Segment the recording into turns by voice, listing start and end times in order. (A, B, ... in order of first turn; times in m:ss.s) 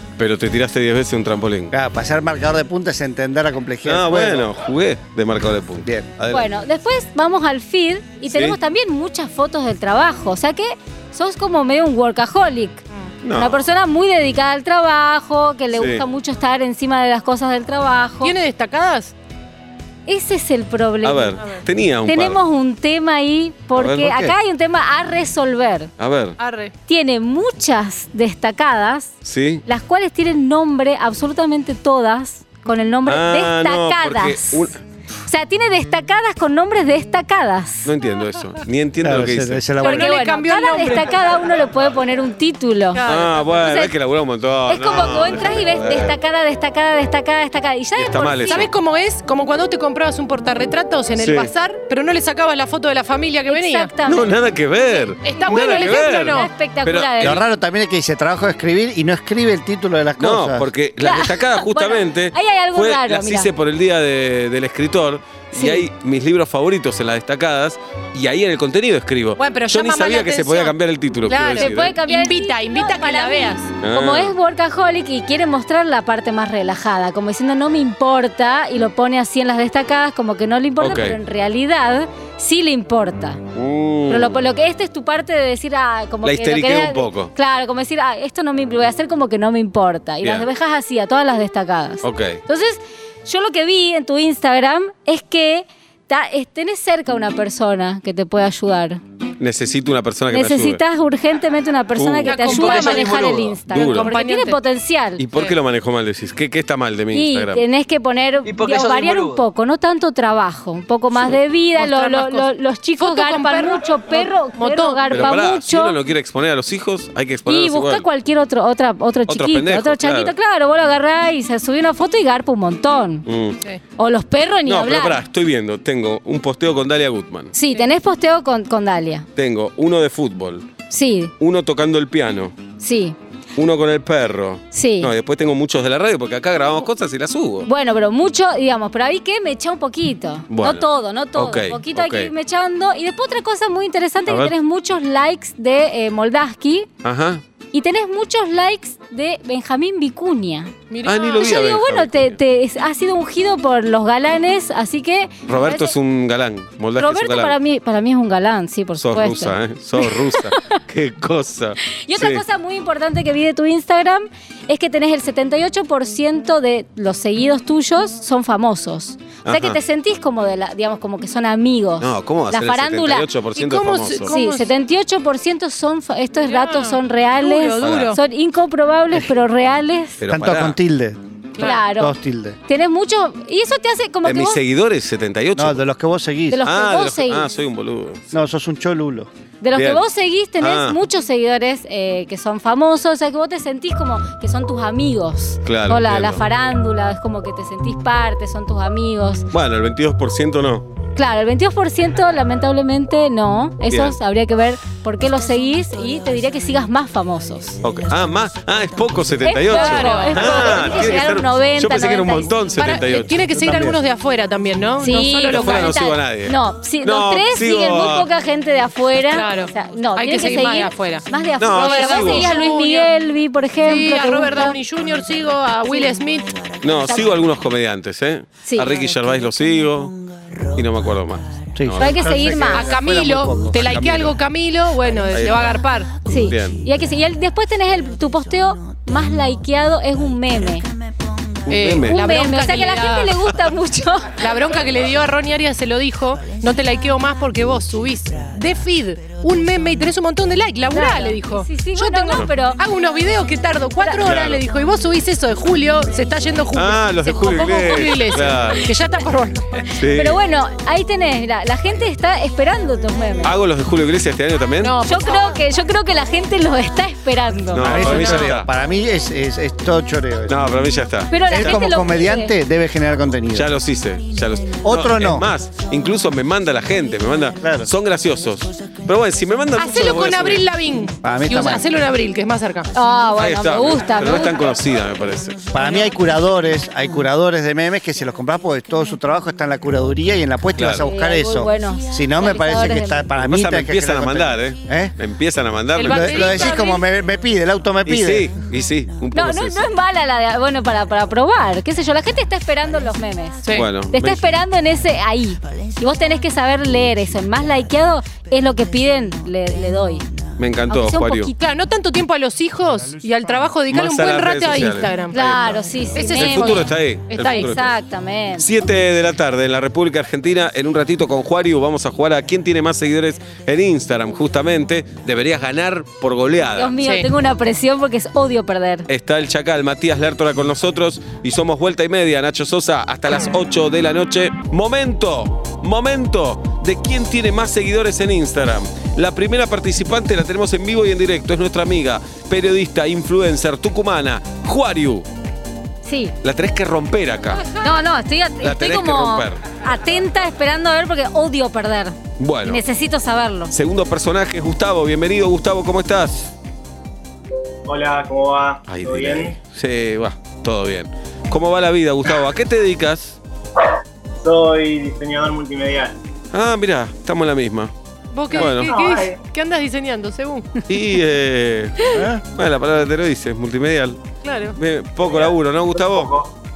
0:00.2-0:01.7 A
0:01.7-0:04.5 B
0:03.8-0:06.5 A
0:05.8-0:06.1 B
0:06.3-0:12.8 C
0:08.3-0:08.6 A
0:13.2-0:13.6 A
0:13.3-0:18.3 C
0:15.7-0:16.0 A
0:18.2-0:19.1 D
0:20.1-0:21.4 C
0:21.0-0:22.4 A
0:21.4-0:21.6 D
0:22.0-0:25.9 C
0:23.7-0:24.3 A
0:26.0-0:26.4 A
0:26.4-0:26.7 D
0:26.9-0:34.7 C
0:29.2-0:29.6 A
0:33.0-0:34.8 A
0:35.3-0:37.9 C
0:37.8-0:39.6 A
0:39.0-0:40.2 B
0:39.8-0:41.2 D
0:39.8-0:43.0 C
0:42.9-0:43.5 D
0:43.0-0:46.1 A
0:43.6-0:43.9 C
0:44.7-0:48.7 C
0:48.0-0:48.7 A
0:48.5-0:53.9 D
0:51.2-0:51.5 A
0:53.5-0:54.3 C
0:54.0-0:57.4 A
0:54.9-0:57.4 C
0:55.2-0:56.5 D
0:57.2-1:00.7 B
1:00.2-1:11.9 A
1:01.0-1:03.5 C
1:05.5-1:05.8 C
1:09.4-1:13.7 D
1:11.6-1:23.4 C
1:13.8-1:14.3 A
1:20.8-1:21.2 A
1:23.5-1:24.4 A
1:24.1-1:39.0 C
1:26.2-1:27.3 A
1:30.2-1:30.5 A
1:32.0-1:32.4 A
1:39.4-1:40.8 A
1:40.3-1:45.2 C
1:42.0-1:44.1 A
1:42.2-1:44.6 D
1:45.2-1:47.6 A
1:47.1-1:56.0 C
1:48.5-1:49.3 A
1:51.8-1:55.4 D
1:55.1-1:58.0 A
1:57.5-2:03.3 C
1:59.3-2:00.3 A
2:03.2-2:03.6 A
2:04.0-2:05.2 C
2:04.6-2:07.5 A
2:07.5-2:09.3 C
2:09.4-2:10.7 A
2:10.9-2:11.3 C
2:11.4-2:12.6 A
2:12.8-2:13.2 C
2:13.6-2:17.7 A
2:14.7-2:15.1 C
2:17.6-2:26.9 C
2:20.5-2:22.3 A
2:24.3-2:24.5 A
2:27.0-2:27.4 A
2:27.7-2:30.7 C
2:30.9-2:31.6 D
2:31.0-2:32.4 A
2:31.4-2:35.9 C
2:35.5-2:37.6 A
2:37.0-2:40.8 C
2:39.0-2:42.4 A
2:42.0-2:53.3 C
2:49.4-2:49.8 A
2:52.0-2:54.3 A
2:53.6-2:54.7 D
2:54.3-3:00.2 C
2:56.4-2:58.2 D
2:57.8-2:58.2 A
3:00.2-3:00.8 A
3:00.2-3:01.2 B
3:01.6-3:01.8 D
3:01.6-3:02.1 C
3:01.8-3:02.6 B
3:02.6-3:04.6 C
3:04.2-3:05.8 A
3:05.6-3:06.6 B
3:06.5-3:07.4 C
3:06.6-3:08.2 A
3:08.3-3:09.3 B
3:09.6-3:19.4 C
3:09.7-3:10.0 A
3:10.6-3:11.0 A
3:15.6-3:16.4 A
3:19.5-3:20.8 A
3:21.2-3:27.8 C
3:23.9-3:24.2 A
3:27.8-3:33.4 A
3:29.4-3:33.2 C
3:29.7-3:31.0 D
3:32.8-3:36.0 D
3:33.5-3:34.0 B
3:35.0-3:44.8 C
3:35.5-3:38.3 A
3:39.3-3:43.1 D
3:41.6-3:42.5 A
3:43.8-3:46.6 D
3:46.8-3:50.2 A
3:47.0-3:47.4 C
3:48.6-3:49.2 C
3:50.7-3:52.2 A
3:51.7-3:54.2 B
3:52.0-3:52.9 C
3:52.7-3:56.2 D
3:53.8-3:54.3 A
3:55.3-3:55.7 A
3:56.2-4:00.8 C
3:56.3-3:56.8 A
4:01.6-4:02.2 A
4:01.7-4:03.4 D
4:02.0-4:04.4 C
4:04.4-4:19.9 D
4:10.9-4:12.8 C
4:14.2-4:14.6 A
4:16.7-4:18.9 A
4:19.9-4:20.4 A
4:20.1-4:23.5 C
4:23.4-4:24.9 A
4:24.8-4:25.6 D
4:25.0-4:28.5 C
4:27.7-4:28.7 A
4:27.8-4:30.6 B
4:28.0-4:28.4 D
4:30.5-4:31.7 A
4:31.3-4:32.5 C
4:31.4-4:33.7 B
4:33.5-4:40.6 A
4:34.8-4:35.5 B
4:37.6-4:37.9 B
4:39.8-4:42.9 D
4:41.2-4:41.9 B
4:42.9-4:44.6 C
4:43.4-4:45.6 A
4:45.7-4:55.1 B
4:45.8-4:46.1 D
4:50.7-4:51.1 A
4:51.0-4:53.2 C
4:53.4-4:56.6 A
4:55.9-4:57.0 D
4:56.0-4:58.5 B
4:58.0-4:59.8 A
4:59.3-5:10.2 C
5:03.6-5:03.9 D
5:03.7-5:04.5 A
5:10.6-5:11.5 A
5:10.9-5:11.5 C
5:11.6-5:15.4 D
5:13.9-5:17.9 A
5:15.3-5:16.8 C
5:16.1-5:17.8 D
5:17.4-5:18.6 C
5:18.6-5:26.9 A
5:26.8-5:29.1 C
5:27.0-5:27.3 D
5:29.1-5:45.3 A
5:46.0-5:46.3 C
5:46.4-5:47.8 A
5:47.8-5:53.7 C
5:48.6-5:49.6 A
5:52.4-5:52.8 A
5:53.7-5:56.5 A
5:57.8-5:59.6 E
5:58.8-6:03.4 A
6:04.4-6:06.1 E
6:06.5-6:07.9 A
6:08.3-6:10.7 D
6:08.5-6:09.0 A
6:08.5-6:09.4 E
6:10.9-6:14.2 A
6:12.1-6:12.4 B
6:14.4-6:14.8 D
6:14.7-6:16.3 A
6:15.2-6:16.5 E